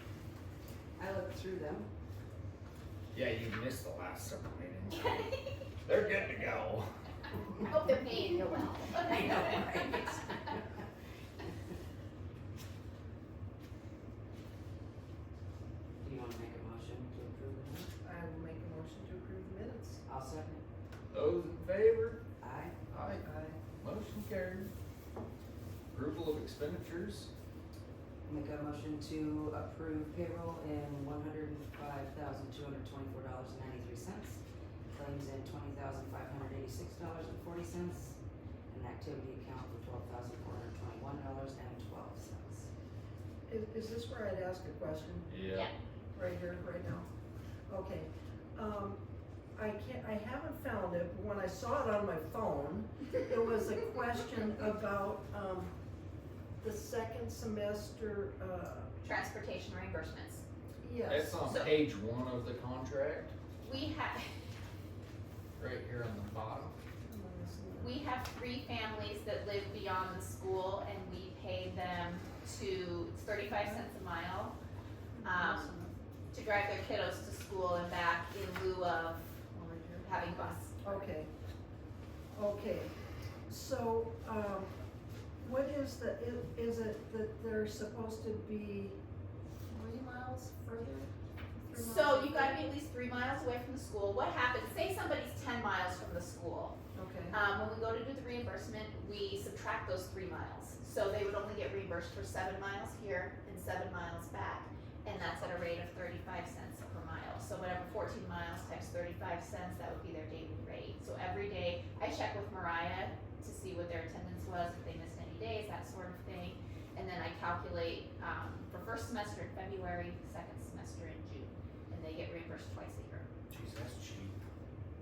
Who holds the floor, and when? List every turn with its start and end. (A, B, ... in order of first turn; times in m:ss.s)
0:01.0-0:01.9 A
0:03.1-0:05.3 B
0:05.8-0:06.9 B
0:07.7-0:09.7 C
0:09.0-0:10.6 A
0:16.0-0:17.9 A
0:18.0-0:20.0 D
0:20.0-0:20.6 A
0:21.1-0:22.2 B
0:22.4-0:22.7 A
0:22.9-0:23.3 B
0:23.2-0:23.6 D
0:23.8-0:24.7 B
0:25.9-0:27.3 B
0:28.2-0:34.4 A
0:34.9-0:38.2 A
0:38.7-0:42.7 A
0:43.5-0:45.3 D
0:45.3-0:45.7 B
0:46.1-0:47.1 D
0:47.7-0:49.0 D
0:49.6-0:55.7 D
0:56.6-0:58.9 D
0:59.0-1:00.4 C
1:00.8-1:01.4 D
1:01.1-1:03.3 B
1:01.4-1:01.8 C
1:03.6-1:04.3 C
1:05.6-1:06.7 B
1:07.1-1:08.0 D
1:07.8-1:14.6 C
1:13.5-1:13.9 D
1:15.2-1:15.9 D
1:15.2-1:15.7 C
1:16.3-1:19.2 C
1:19.5-1:20.1 D
1:20.0-1:21.0 C
1:20.8-1:21.3 D
1:22.3-1:22.9 D
1:23.5-1:24.7 D
1:25.4-1:29.0 D
1:29.7-1:32.7 D
1:31.7-1:36.8 C
1:36.9-1:37.4 D
1:37.3-2:03.2 C
2:03.5-2:04.4 B